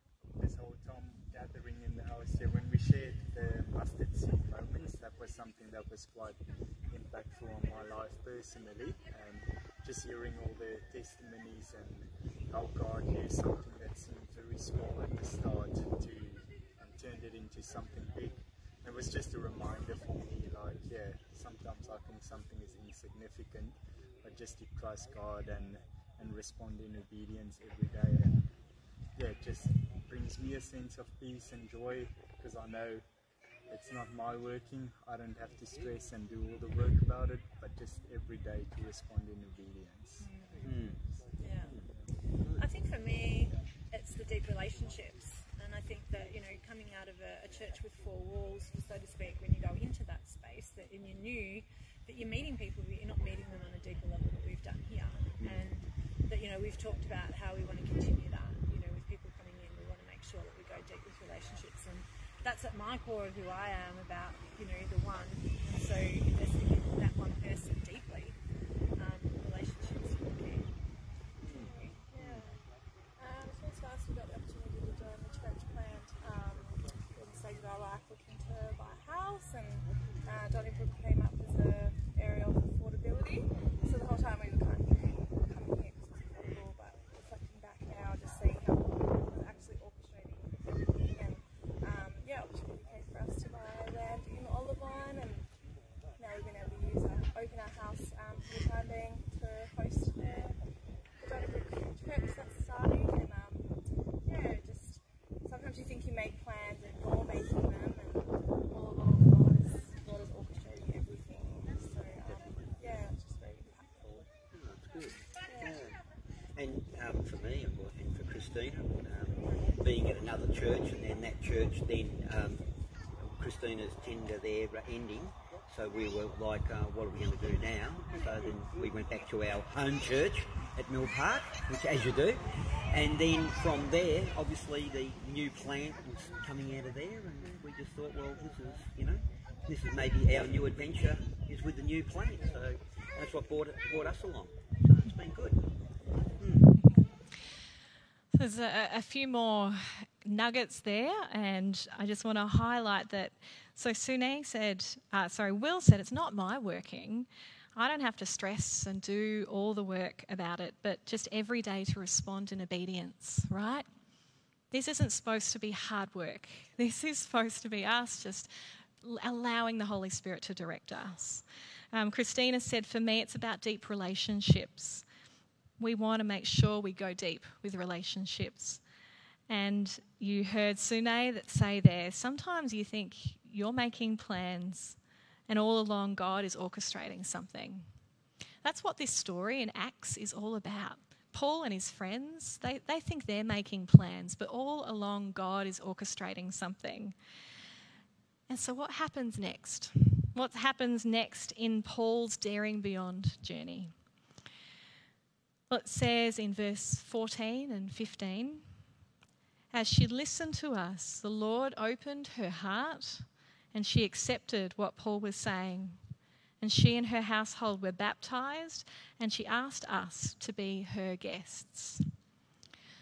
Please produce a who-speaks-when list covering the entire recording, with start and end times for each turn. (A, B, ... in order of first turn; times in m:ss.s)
0:00.4-0:06.4 A
0:06.9-0:28.5 A
0:29.2-0:33.0 A
0:33.7-0:40.3 A
0:40.2-0:40.6 B
0:40.6-0:41.0 C
0:41.4-0:41.7 B
0:42.6-1:08.4 B
0:55.4-0:55.7 C
1:09.0-1:10.8 B
1:11.4-1:12.4 C
1:11.5-1:11.9 B
1:12.1-1:12.5 D
1:13.2-1:30.5 D
1:31.1-1:35.5 D
1:36.2-1:40.6 D
1:41.2-1:54.2 D
1:51.7-1:52.7 C
1:54.5-1:56.0 C
1:55.5-1:55.8 D
1:56.6-2:02.6 C
2:03.2-2:25.7 C
2:26.4-2:26.7 C
2:28.3-2:43.8 E
2:44.7-2:48.5 E
2:49.0-2:55.0 E
2:55.8-2:58.8 E
2:59.5-3:05.0 E
3:05.5-3:07.8 E
3:08.6-3:17.1 E
3:18.5-3:23.9 E
3:25.7-3:28.6 E
3:29.7-3:36.0 E
3:36.6-3:42.0 E